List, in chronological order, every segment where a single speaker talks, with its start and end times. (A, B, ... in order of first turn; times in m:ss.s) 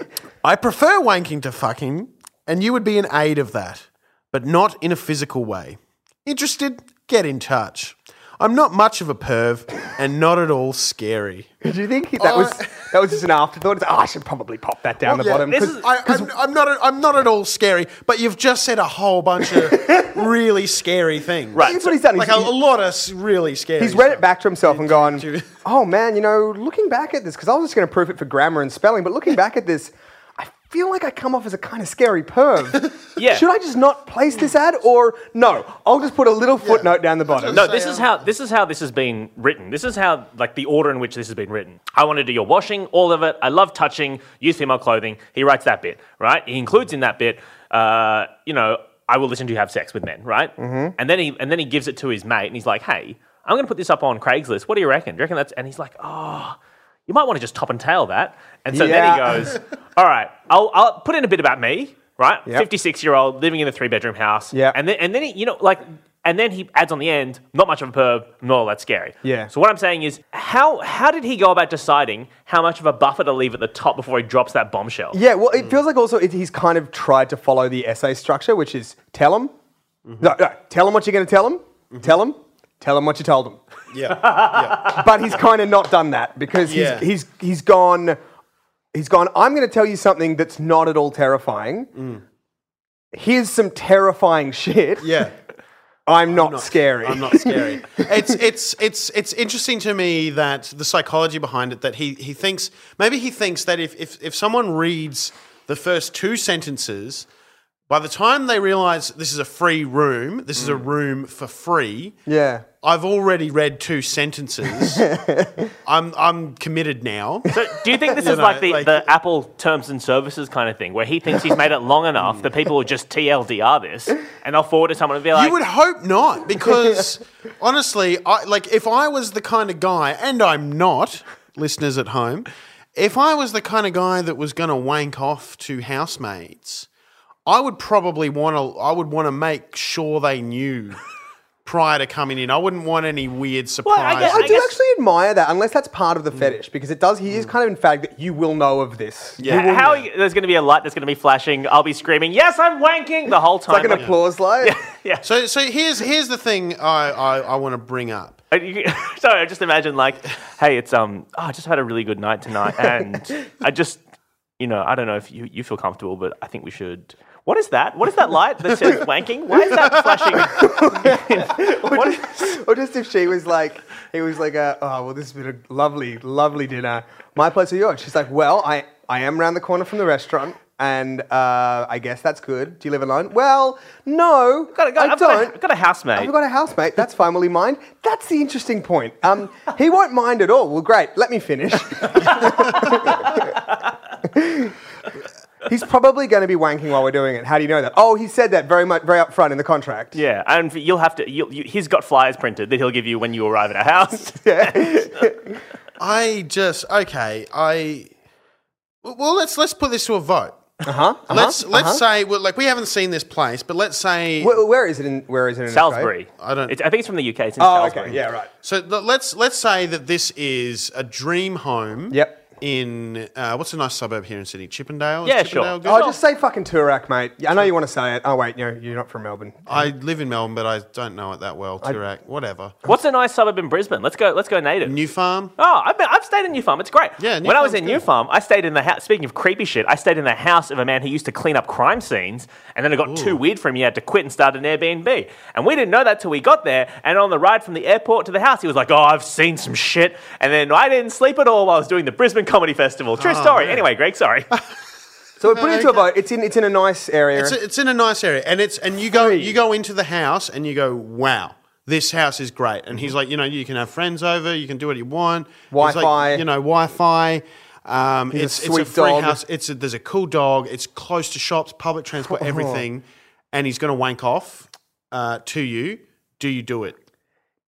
0:00.4-0:11.5 A
0:11.6-0:16.3 B
0:12.2-0:12.7 A
0:15.1-0:25.5 A
0:15.3-0:15.8 C
0:19.5-0:20.2 B
0:21.5-0:21.9 C
0:21.6-0:22.5 B
0:23.8-0:37.7 B
0:33.2-0:33.4 C
0:36.6-0:38.1 A
0:37.5-1:15.2 C
0:50.6-0:50.9 B
0:58.7-0:59.5 B
1:04.5-1:04.8 B
1:09.2-1:09.5 B
1:15.1-1:19.5 B
1:20.0-1:20.3 A
1:20.2-1:23.6 B
1:21.9-1:22.2 A
1:23.9-1:25.0 A
1:24.1-1:25.0 C
1:24.8-1:28.2 B
1:26.6-1:27.1 A
1:28.9-1:31.9 B
1:32.0-1:32.2 A
1:33.1-1:35.3 B
1:35.0-1:35.3 A
1:36.0-1:38.4 B
1:36.3-1:47.3 A
1:47.9-1:52.2 A
1:52.3-1:52.6 B
1:52.8-1:55.1 A
1:54.8-1:55.7 B
1:55.8-1:57.5 A
1:57.5-2:05.6 C
1:58.2-1:59.1 A
2:02.2-2:02.4 A
2:05.3-2:16.9 A
2:17.4-2:21.0 A
2:21.6-2:24.7 A
2:23.8-2:24.8 C
2:24.2-2:29.9 B
2:29.4-2:30.0 A
2:29.4-2:35.2 C
2:33.7-2:34.7 B
2:35.2-2:38.4 A
2:38.5-2:44.0 C
2:44.6-2:52.5 C
2:50.4-3:05.6 B
3:04.7-3:06.3 C
3:06.1-3:13.6 B
3:14.2-3:14.8 B
3:15.6-3:20.2 B
3:20.1-3:25.3 C
3:24.4-3:25.6 B
3:26.0-3:28.1 A
3:29.0-3:34.6 A
3:30.8-3:32.0 B
3:34.4-3:36.1 B
3:35.7-3:38.2 C
3:36.4-3:36.8 A
3:37.6-3:38.5 B
3:38.1-3:46.1 A
3:42.1-3:42.4 B
3:45.2-3:46.1 C
3:45.8-3:49.9 B
3:49.7-3:52.8 A
3:52.8-3:55.0 C
3:54.8-3:55.5 A
3:55.6-4:14.5 C
3:57.2-3:58.0 A
4:03.0-4:03.4 A
4:13.2-4:13.8 A
4:15.4-4:17.6 B
4:15.4-4:16.1 A
4:17.3-4:37.0 A
4:19.1-4:19.5 B
4:25.7-4:26.4 B
4:28.3-4:29.4 B
4:32.2-4:32.8 B